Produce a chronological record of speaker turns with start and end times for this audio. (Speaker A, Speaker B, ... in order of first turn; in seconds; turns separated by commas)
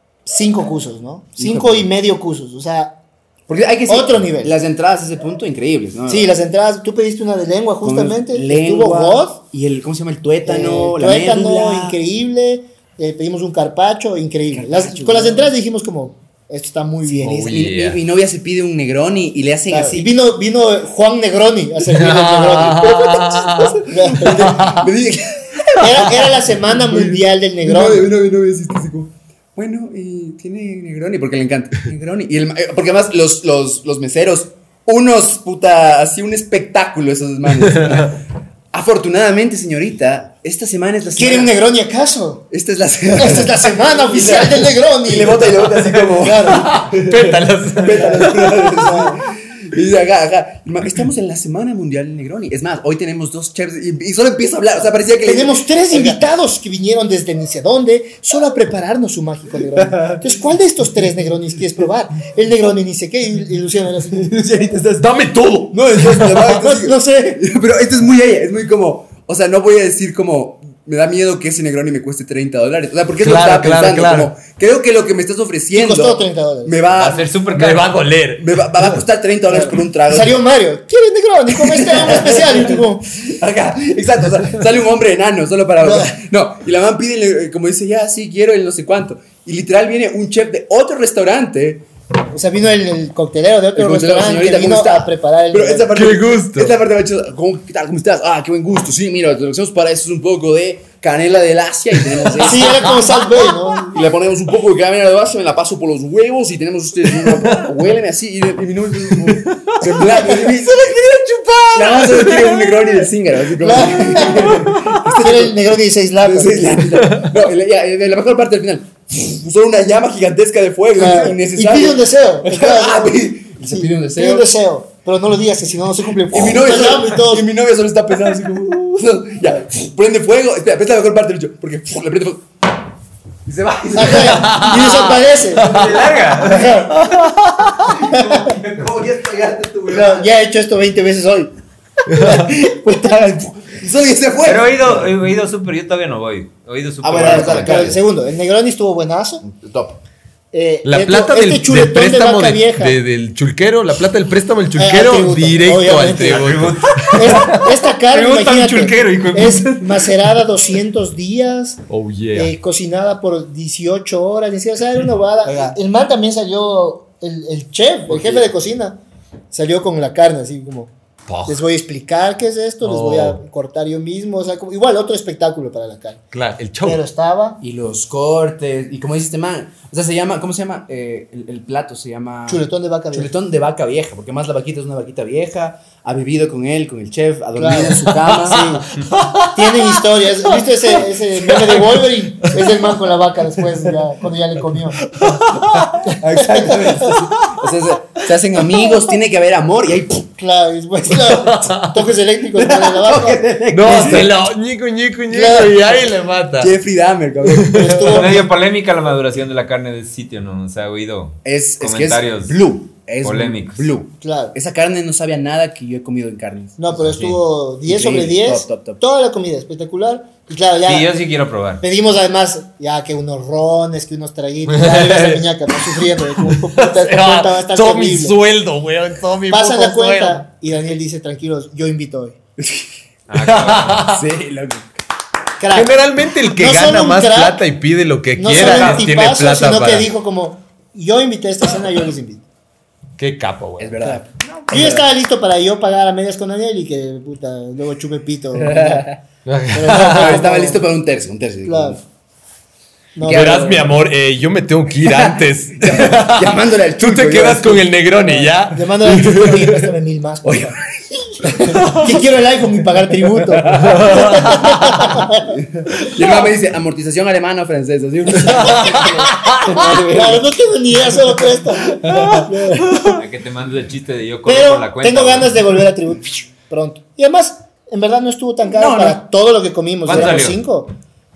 Speaker A: 0.2-3.0, Speaker B: 1.4-1.9, Speaker B: 3.5-6.3, Speaker A: 3.9-4.5, Speaker A: 6.1-9.4, Speaker B: 7.8-12.0, Speaker A: 10.4-17.6, Speaker B: 14.5-15.5, Speaker C: 17.1-18.0, Speaker B: 17.5-20.1, Speaker A: 19.7-22.9, Speaker C: 21.9-24.9, Speaker B: 22.6-38.2, Speaker A: 23.9-24.8, Speaker A: 25.8-28.1, Speaker B: 38.7-41.5, Speaker A: 41.2-42.4, Speaker B: 42.5-56.2, Speaker A: 43.1-46.8, Speaker C: 46.5-48.8, Speaker A: 47.9-49.2, Speaker A: 55.2-64.3, Speaker B: 59.6-60.3, Speaker B: 64.1-65.1, Speaker C: 65.0-66.5, Speaker B: 65.7-77.3, Speaker A: 66.4-67.4, Speaker C: 73.2-74.3, Speaker A: 75.7-76.8, Speaker D: 76.9-77.9, Speaker C: 77.5-78.8, Speaker B: 78.4-80.4, Speaker A: 79.5-83.1, Speaker B: 81.5-91.8, Speaker A: 85.8-86.1, Speaker A: 92.3-96.0, Speaker B: 93.7-102.8, Speaker C: 95.9-96.8, Speaker A: 102.4-104.0, Speaker C: 102.6-102.9, Speaker B: 103.9-111.0, Speaker C: 107.2-107.6, Speaker C: 109.2-112.8, Speaker B: 111.7-115.6, Speaker A: 112.0-112.3, Speaker A: 113.6-116.8, Speaker C: 114.3-115.0, Speaker B: 116.2-124.5, Speaker C: 117.0-117.3, Speaker A: 120.9-127.5, Speaker B: 126.3-132.5, Speaker B: 133.4-134.6, Speaker A: 133.9-135.8, Speaker C: 134.1-135.9, Speaker D: 135.6-136.8, Speaker B: 135.6-137.1, Speaker A: 136.3-137.1, Speaker C: 136.9-137.9, Speaker B: 137.8-140.3, Speaker A: 138.0-138.5, Speaker A: 139.9-141.5, Speaker C: 142.1-142.5, Speaker A: 142.1-143.2, Speaker B: 142.3-145.2, Speaker D: 144.4-147.9, Speaker B: 147.0-148.0, Speaker A: 147.1-149.4, Speaker B: 149.4-150.0, Speaker A: 150.5-153.0, Speaker C: 150.8-157.4, Speaker A: 154.8-156.4, Speaker D: 156.3-160.4, Speaker A: 157.1-161.8, Speaker C: 161.9-162.5, Speaker A: 162.3-169.0, Speaker B: 165.4-165.8, Speaker B: 168.1-168.5, Speaker A: 169.5-170.9, Speaker C: 171.3-171.6, Speaker A: 171.5-176.2, Speaker C: 172.8-173.4, Speaker C: 176.3-177.0, Speaker A: 176.8-177.6, Speaker B: 177.6-188.8, Speaker A: 182.5-183.3, Speaker A: 187.6-188.8, Speaker C: 188.1-192.9, Speaker A: 189.5-195.1, Speaker C: 195.0-196.2, Speaker A: 196.0-197.2, Speaker B: 196.2-200.3, Speaker C: 197.2-197.6, Speaker C: 198.7-199.0, Speaker A: 200.4-204.3, Speaker C: 201.2-202.1, Speaker B: 202.5-204.3, Speaker C: 203.7-206.7, Speaker A: 205.3-206.0, Speaker B: 206.6-207.9, Speaker C: 207.4-208.2, Speaker A: 207.7-208.5, Speaker D: 208.1-212.6, Speaker B: 211.4-217.3, Speaker D: 213.2-213.8, Speaker A: 214.2-214.5, Speaker A: 216.8-221.1, Speaker B: 217.8-219.0, Speaker D: 220.8-221.8, Speaker A: 221.8-228.3, Speaker C: 224.7-230.4, Speaker A: 229.5-232.4, Speaker B: 232.6-232.9, Speaker D: 233.3-234.1, Speaker C: 233.4-234.2, Speaker B: 234.0-234.8, Speaker A: 235.6-235.9, Speaker C: 235.7-240.1, Speaker A: 236.5-237.6, Speaker A: 238.3-242.4, Speaker D: 238.5-239.1, Speaker C: 243.2-244.1, Speaker B: 243.8-245.1, Speaker A: 244.0-249.1, Speaker B: 248.6-249.2, Speaker C: 249.4-250.4, Speaker A: 249.7-250.8, Speaker B: 249.9-252.0, Speaker A: 251.6-252.0, Speaker A: 253.2-254.0, Speaker B: 253.2-253.8, Speaker C: 253.2-259.9, Speaker B: 255.0-258.0, Speaker A: 258.3-260.8, Speaker B: 260.4-260.8, Speaker B: 261.4-261.9, Speaker A: 261.5-265.5, Speaker C: 261.6-262.1, Speaker B: 263.5-264.2, Speaker C: 263.7-265.2, Speaker B: 265.5-270.5, Speaker C: 268.5-269.8, Speaker A: 268.6-269.1, Speaker A: 269.8-273.2, Speaker B: 271.9-272.4, Speaker C: 272.1-273.2, Speaker D: 273.1-275.6, Speaker A: 274.4-280.9, Speaker B: 278.6-279.2, Speaker D: 280.0-280.6, Speaker B: 280.1-280.5